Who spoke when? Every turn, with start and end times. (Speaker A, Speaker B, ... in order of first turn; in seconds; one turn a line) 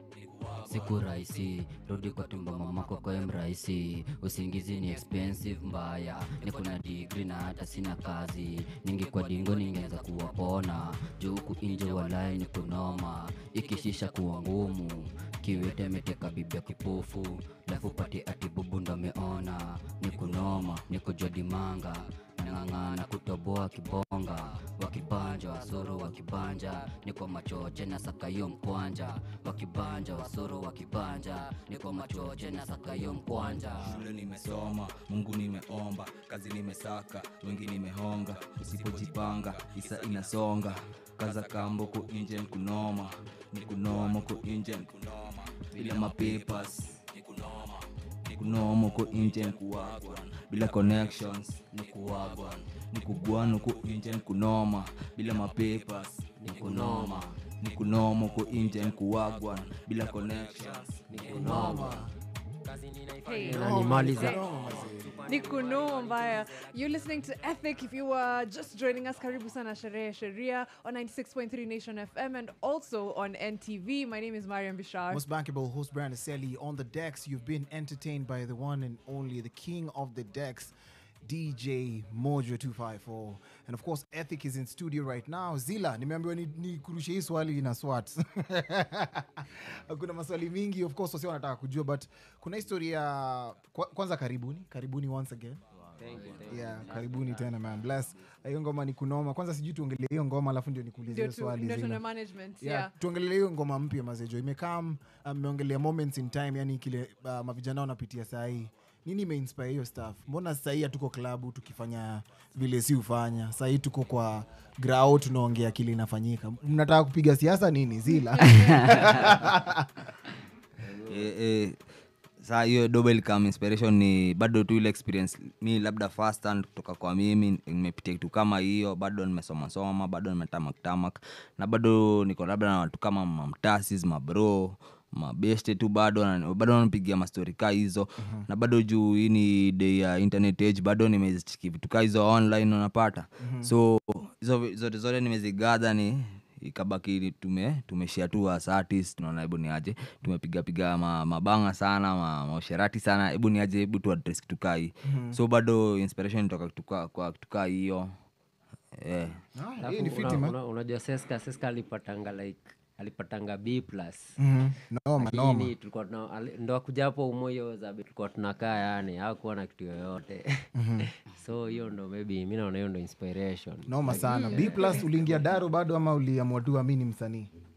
Speaker A: 0.6-34.0
Speaker B: 33.8-62.0
Speaker A: 45.7-46.3
Speaker A: 51.7-52.6
Speaker C: 56.4-57.4
Speaker A: 56.5-57.4
Speaker C: 60.5-66.7
Speaker D: 61.3-62.1
Speaker E: 63.2-64.4
Speaker D: 63.5-65.2
Speaker E: 65.2-75.2
Speaker D: 75.1-95.6
Speaker C: 95.9-97.7
Speaker B: 96.2-96.6
Speaker A: 96.2-96.9
Speaker D: 96.5-102.0
Speaker E: 101.0-102.9
Speaker D: 102.6-119.9
Speaker E: 118.3-118.8
Speaker C: 120.8-121.3
Speaker B: 121.0-121.8
Speaker B: 122.4-158.1
Speaker D: 138.2-138.4
Speaker D: 143.4-143.7
Speaker D: 155.1-155.4
Speaker B: 158.9-159.4
Speaker D: 159.6-160.6
Speaker C: 159.8-164.3
Speaker D: 164.4-165.7
Speaker C: 165.2-175.6
Speaker D: 170.8-171.1
Speaker D: 173.9-177.5
Speaker E: 174.2-175.1